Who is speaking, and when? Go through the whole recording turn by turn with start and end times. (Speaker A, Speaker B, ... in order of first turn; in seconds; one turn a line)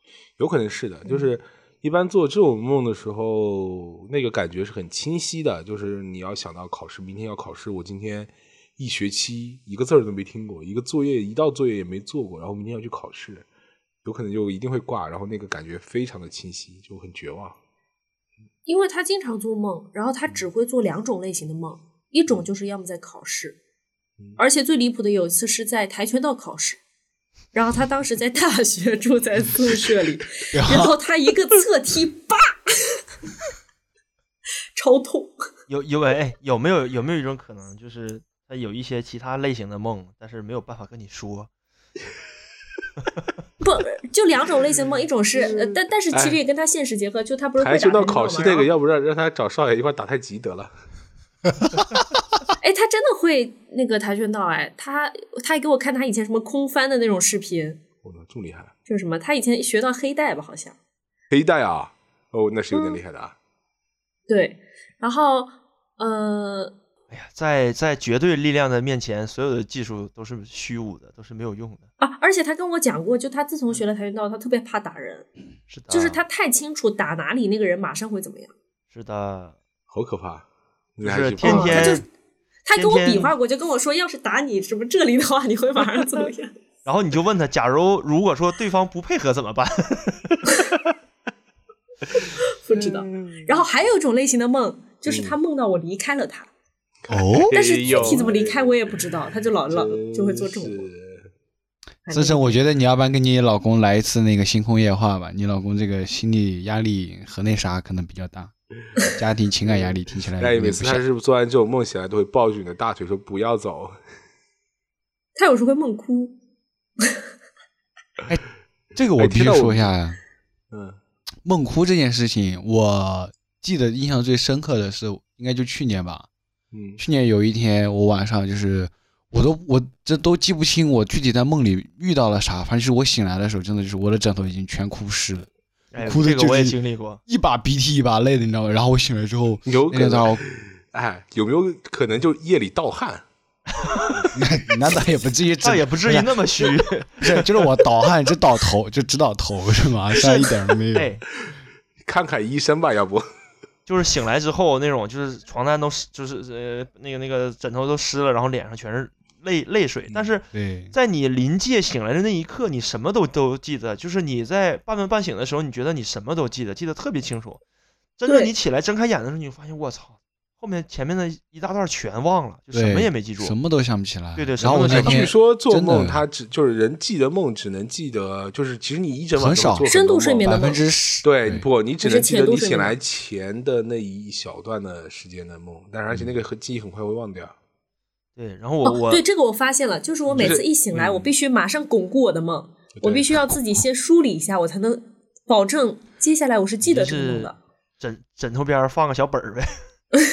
Speaker A: 0.4-13.4
Speaker A: 14.0-17.6
Speaker B: 18.6-23.6
Speaker B: 24.4-26.8
Speaker B: 27.5-33.0
Speaker C: 30.5-30.9
Speaker B: 34.8-35.3
Speaker D: 35.7-41.5
Speaker B: 43.6-48.7
Speaker A: 46.1-46.4
Speaker A: 47.6-50.7
Speaker B: 52.6-57.8
Speaker A: 58.0-58.7
Speaker B: 58.9-60.8
Speaker A: 61.3-63.3
Speaker B: 62.7-63.0
Speaker B: 64.3-66.7
Speaker D: 67.1-71.9
Speaker B: 72.0-75.3
Speaker D: 75.7-76.2
Speaker B: 75.9-78.5
Speaker D: 78.9-79.5
Speaker A: 79.9-80.5
Speaker A: 81.0-82.0
Speaker D: 81.0-82.0
Speaker B: 81.4-82.0
Speaker B: 82.6-86.5
Speaker D: 82.7-83.3
Speaker D: 86.8-90.6
Speaker B: 92.6-96.5
Speaker A: 95.0-95.3
Speaker A: 97.0-99.0
Speaker C: 97.1-98.0
Speaker B: 97.5-100.9
Speaker A: 99.7-101.3
Speaker B: 102.0-102.6
Speaker C: 102.1-111.0
Speaker A: 109.6-113.9
Speaker B: 115.3-116.3
Speaker C: 118.9-120.2
Speaker A: 119.2-119.9
Speaker A: 120.7-121.0
Speaker C: 121.4-126.3
Speaker A: 126.7-127.0
Speaker C: 127.0-135.5
Speaker D: 135.9-137.2
Speaker C: 136.0-136.7
Speaker C: 137.3-140.4
Speaker A: 139.7-143.2
Speaker D: 143.8-144.1
Speaker C: 144.3-151.1
Speaker D: 145.6-147.9
Speaker D: 150.1-151.2
Speaker A: 152.1-153.2
Speaker D: 153.9-167.6
Speaker C: 160.5-160.9
Speaker D: 168.2-173.6
Speaker C: 172.7-176.2
Speaker D: 174.3-175.3
Speaker A: 174.7-180.7
Speaker C: 179.3-179.9
Speaker B: 179.8-180.8
Speaker C: 180.4-181.7
Speaker A: 181.2-187.5
Speaker B: 182.0-182.9
Speaker D: 188.3-189.2
Speaker B: 188.8-197.6
Speaker A: 190.3-191.3
Speaker A: 193.0-193.3
Speaker D: 196.8-199.7